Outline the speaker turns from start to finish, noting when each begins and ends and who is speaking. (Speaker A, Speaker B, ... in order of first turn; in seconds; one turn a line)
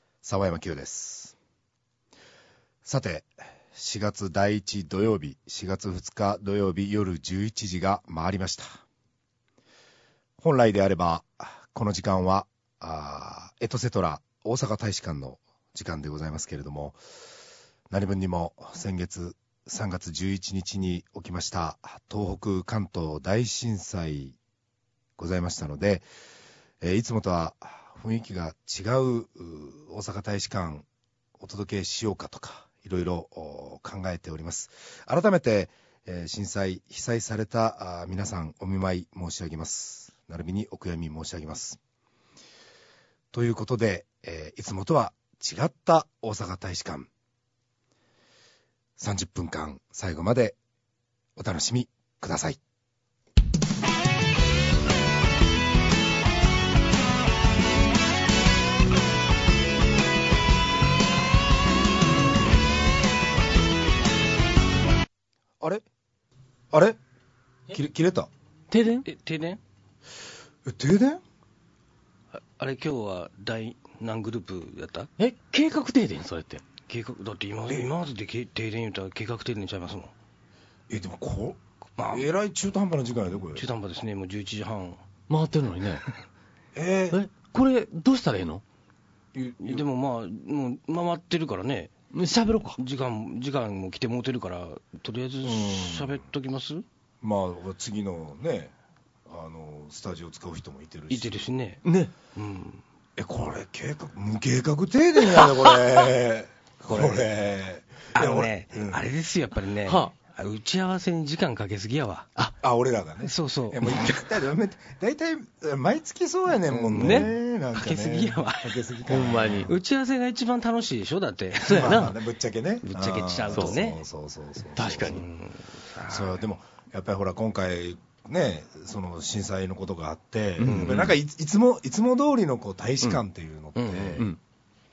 Speaker A: 0.2-1.4
Speaker A: 2.9-8.8
Speaker A: 10.4-17.0
Speaker A: 17.9-24.4
Speaker A: 25.2-26.1
Speaker A: 26.8-30.9
Speaker A: 31.4-41.8
Speaker A: 43.3-47.1
Speaker A: 49.0-50.6
Speaker A: 51.4-52.6
Speaker A: 66.7-67.0
Speaker A: 67.7-68.3
Speaker B: 68.7-69.0
Speaker C: 69.0-69.6
Speaker A: 70.7-71.2
Speaker C: 72.6-75.1
Speaker B: 75.2-76.6
Speaker C: 76.9-80.1
Speaker A: 80.9-83.7
Speaker C: 82.0-82.3
Speaker C: 83.5-85.0
Speaker B: 85.3-86.0
Speaker A: 86.8-87.2
Speaker B: 87.1-88.6
Speaker A: 89.3-89.8
Speaker C: 89.6-91.9
Speaker B: 92.1-92.8
Speaker C: 92.8-96.8
Speaker A: 95.4-96.2
Speaker A: 97.2-98.7
Speaker A: 99.3-101.4
Speaker C: 101.1-101.8
Speaker B: 101.8-102.1
Speaker C: 102.3-102.8
Speaker A: 103.2-109.0
Speaker C: 106.9-107.2
Speaker C: 108.1-112.3
Speaker A: 112.6-119.7
Speaker C: 113.2-114.0
Speaker C: 116.7-118.8
Speaker B: 117.0-117.3
Speaker B: 119.1-119.7
Speaker C: 119.7-122.1
Speaker B: 121.7-122.1
Speaker A: 121.7-125.2
Speaker C: 122.8-124.0
Speaker B: 123.5-123.8
Speaker B: 124.8-125.2
Speaker C: 125.1-126.4
Speaker A: 126.1-134.3
Speaker B: 130.6-131.1
Speaker C: 130.6-131.1
Speaker C: 133.8-134.2